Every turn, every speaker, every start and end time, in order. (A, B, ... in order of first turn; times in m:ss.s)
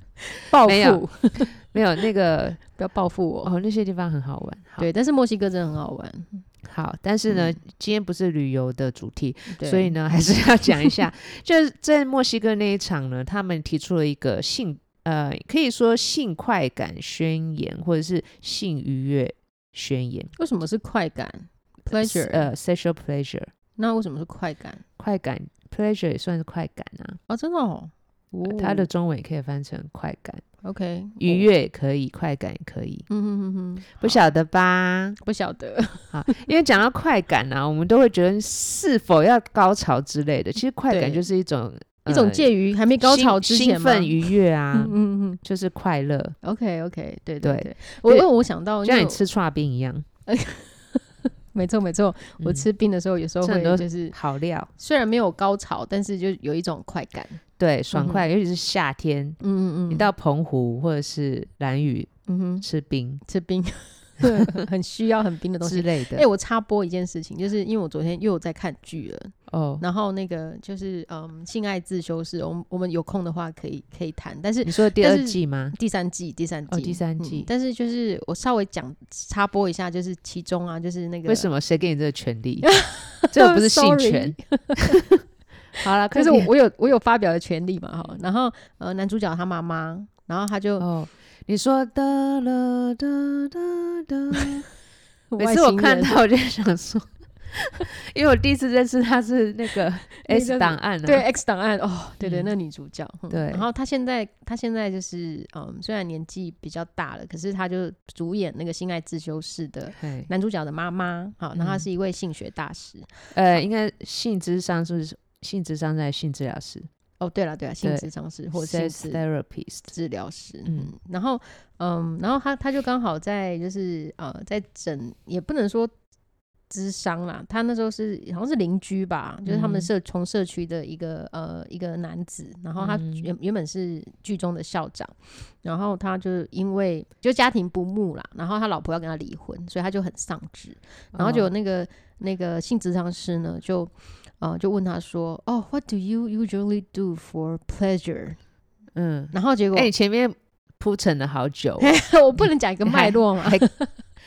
0:00.3-0:01.5 A
0:00.5-0:02.6 B
0:02.7-0:03.5 A
0:03.4-0:04.9 B
0:04.8-0:06.4 A
0:06.6-0:20.3 B
0:07.3-0:07.6 A
0:09.5-0:10.2 A
0:20.4-0:22.5 A
0:21.9-0:23.5 B
0:23.8-0:24.8 A
0:25.0-0:27.2 B
0:27.3-0:28.9 A
0:28.4-0:30.4 B
0:30.6-0:31.5 A
0:31.2-0:33.1 B
0:33.1-0:34.2 A
0:34.0-0:35.2 B
0:35.2-0:36.5 A
0:36.1-0:46.4 B
0:40.9-0:41.2 A
0:42.1-0:45.4 A
0:46.4-0:49.2 A
0:47.4-0:48.3 B
0:48.8-0:50.0 B
0:50.3-0:54.1 A
0:52.4-0:52.6 B
0:53.4-0:54.7 B
0:54.8-0:57.4 A
0:57.6-1:02.1 B
0:57.9-0:58.2 A
0:59.4-1:00.1 A
1:02.3-1:02.6 A
1:02.6-1:03.2 B
1:03.2-1:21.5 A
1:04.2-1:04.6 B
1:05.6-1:06.2 B
1:09.5-1:09.8 B
1:14.6-1:15.7 B
1:16.7-1:17.5 B
1:21.3-1:22.8 B
1:22.6-1:25.0 A
1:23.3-1:24.4 B
1:25.8-1:26.5 B
1:26.1-1:30.8 A
1:30.8-1:34.7 B
1:35.3-1:36.2 A
1:35.4-1:41.2 B
1:40.2-1:53.3 A
1:42.2-1:42.5 B
1:43.3-1:43.6 B
1:50.0-1:50.3 B
1:51.6-1:51.8 B
1:53.3-1:56.9 B
1:57.2-1:59.2 A
1:57.8-1:59.9 B
1:59.9-2:05.9 A
2:00.6-2:00.9 B
2:06.7-2:28.4 A
2:09.4-2:09.9 B
2:12.8-2:13.3 B
2:21.1-2:21.5 B
2:28.9-2:33.7 B
2:29.3-2:29.9 A
2:31.8-2:33.9 A